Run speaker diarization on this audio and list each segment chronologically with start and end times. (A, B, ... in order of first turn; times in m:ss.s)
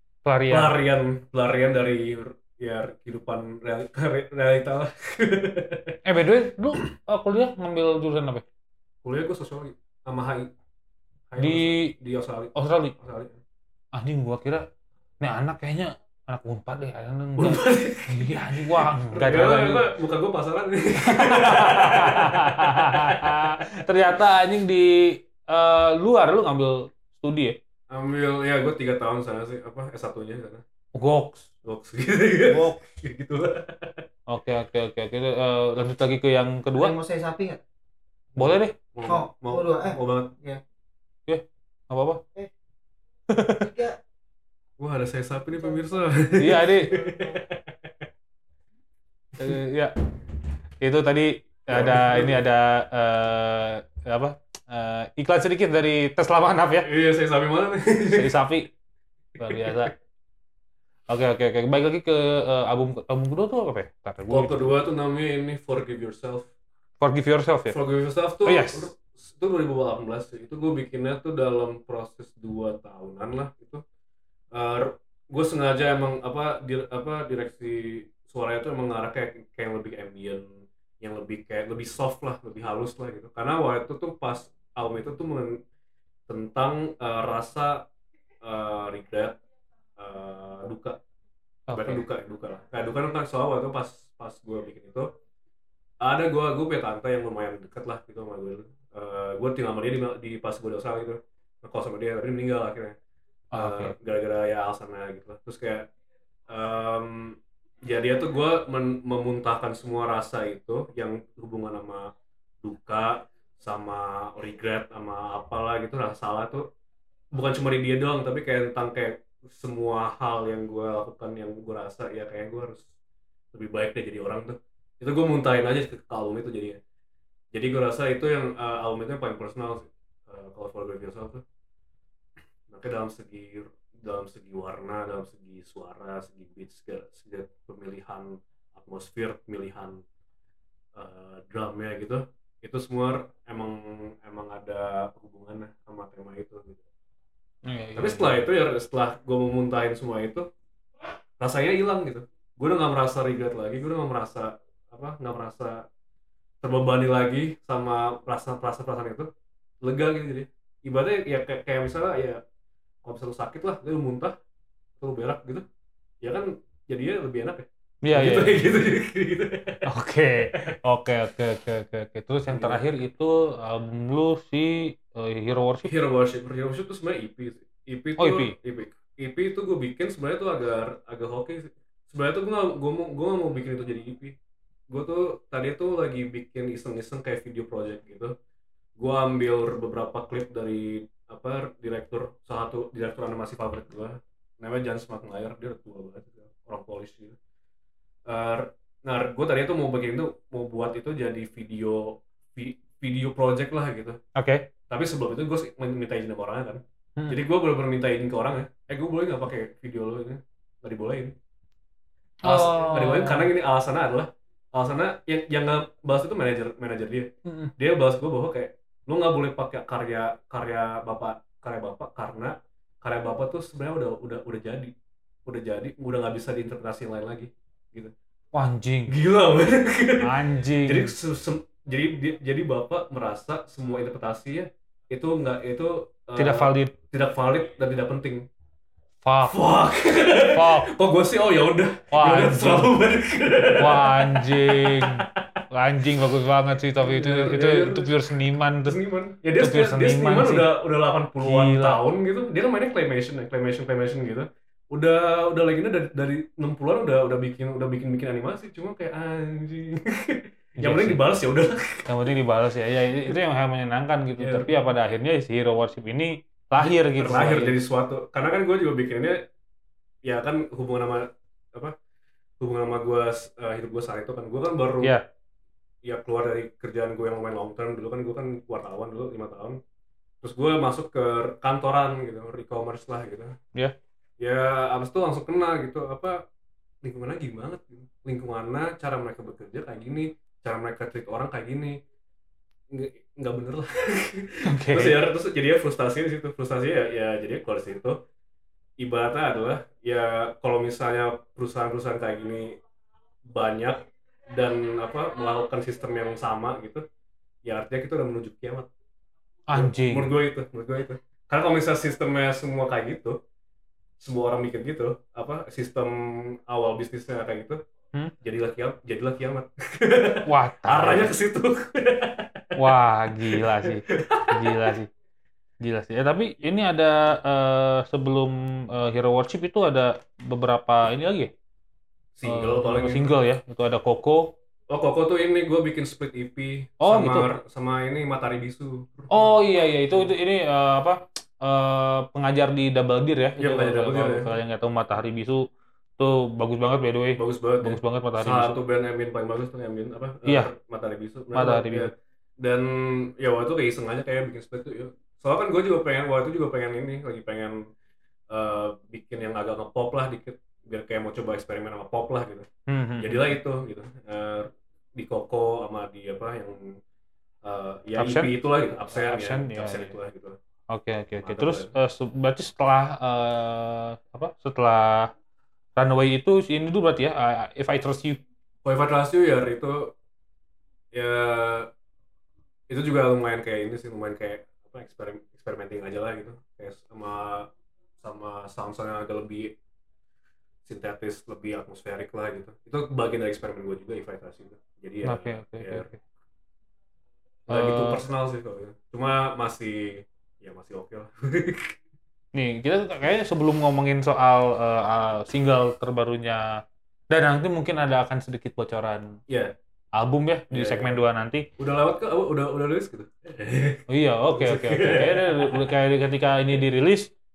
0:00.3-0:00.8 A
0:00.5-0:06.0 B
0:06.0-0:08.4 A
0:09.0-0:10.5 B
0:11.3-0:13.4 B
0:11.4-0:11.9 A
0:12.6-0:12.9 A
0:13.9-0:14.6 A
0:15.2-0:19.9 A
0:17.4-0:23.6 B
0:21.0-0:27.6 A
0:27.9-0:30.6 B
0:31.0-0:31.5 A
0:31.6-0:34.1 B
0:32.5-0:32.8 A
0:34.3-0:37.0 A
0:36.8-0:37.6 C
0:38.4-0:40.4 B
0:38.4-0:38.8 A
0:39.1-0:40.6 C
0:41.3-0:42.2 A
0:43.3-0:43.7 A
0:43.6-0:44.0 C
0:44.8-0:47.9 B
0:46.4-0:46.9 A
0:49.4-0:50.0 A
0:50.8-0:57.0 A
0:51.7-0:52.4 B
0:56.8-0:58.3 B
0:58.1-0:58.7 A
0:59.4-0:59.9 B
0:59.4-0:59.9 A
1:01.1-1:04.8 A
1:04.3-1:06.5 B
1:07.0-1:07.8 A
1:07.7-1:13.8 B
1:08.4-1:08.9 A
1:14.5-1:25.6 B
1:26.3-1:27.8 B
1:28.4-1:29.4 B
1:30.0-1:31.0 B
1:31.7-1:32.0 A
1:31.8-1:35.1 B
1:36.0-1:43.0 B
1:43.5-1:43.9 A
1:43.6-1:45.9 B
1:46.5-1:52.1 B
1:52.6-1:56.6 B
1:57.3-2:02.8 B
2:03.5-2:06.8 B
2:07.5-2:11.4 B
2:12.7-2:20.0 B
2:21.0-2:26.8 B
2:27.7-2:28.5 A
2:28.0-2:30.5 B
2:31.4-2:35.8 B
2:36.6-2:39.3 B
2:39.8-2:42.4 B
2:43.0-2:44.4 B
2:45.0-2:45.6 B
2:46.2-2:49.8 B
2:48.0-2:48.6 A
2:49.9-2:55.9 A
2:52.5-2:52.8 B
2:55.8-3:04.4 B
2:58.2-2:58.6 A
3:04.9-3:08.4 B
3:09.0-3:17.4 B
3:18.3-3:24.2 B
3:24.4-3:24.7 A
3:24.9-3:31.3 B
3:27.2-3:27.4 A
3:32.4-3:33.5 A
3:32.4-3:44.9 B
3:37.4-3:37.7 A
3:45.5-3:48.1 B
3:48.5-3:49.2 A
3:49.1-3:58.4 B
3:50.2-3:51.1 A
3:56.4-3:56.9 A
3:59.2-3:59.6 A
3:59.4-4:05.6 B
4:00.5-4:00.9 A
4:02.1-4:02.9 A
4:03.8-4:09.0 A
4:07.0-4:08.3 B
4:08.8-4:22.1 B
4:09.6-4:10.7 A
4:11.4-4:12.0 A
4:20.8-4:21.2 A
4:22.1-4:27.8 A
4:24.4-4:24.7 B
4:26.8-4:29.4 B
4:30.2-4:32.0 B
4:32.6-4:35.1 B
4:36.0-4:39.8 B
4:40.4-4:43.6 B
4:44.4-4:46.4 B
4:47.0-4:52.0 B
4:52.9-4:58.2 B
4:54.7-4:55.2 A
4:59.0-5:02.8 B
5:03.4-5:07.0 B
5:07.6-5:08.9 B
5:09.7-5:10.3 A
5:09.7-5:13.4 B
5:14.2-5:17.8 B
5:18.4-5:22.8 B
5:20.5-5:21.3 A
5:22.8-5:25.1 A
5:23.5-5:25.0 B
5:25.8-5:31.5 A
5:32.4-5:33.4 B
5:32.5-5:34.5 A
5:34.9-5:39.6 B
5:37.0-5:37.5 A
5:39.3-5:45.6 A
5:43.6-5:44.5 B
5:46.2-5:48.7 A
5:47.4-5:57.8 B
5:50.5-5:50.7 A
5:51.5-5:52.1 A
5:58.5-6:02.7 B
6:02.9-6:03.6 A
6:03.2-6:07.0 B
6:07.6-6:10.6 B
6:08.2-6:08.6 A
6:09.1-6:10.2 A
6:10.9-6:15.3 A
6:11.4-6:11.9 B
6:16.0-6:18.4 A
6:18.8-6:20.1 B
6:21.1-6:21.9 B
6:22.9-6:29.8 B
6:30.8-6:36.1 B
6:35.2-6:36.2 A
6:37.7-6:38.3 A
6:37.7-6:42.0 B
6:42.5-6:49.4 A
6:50.2-6:51.7 A
6:50.7-6:51.2 B
6:51.8-6:55.8 B
6:54.1-6:57.3 A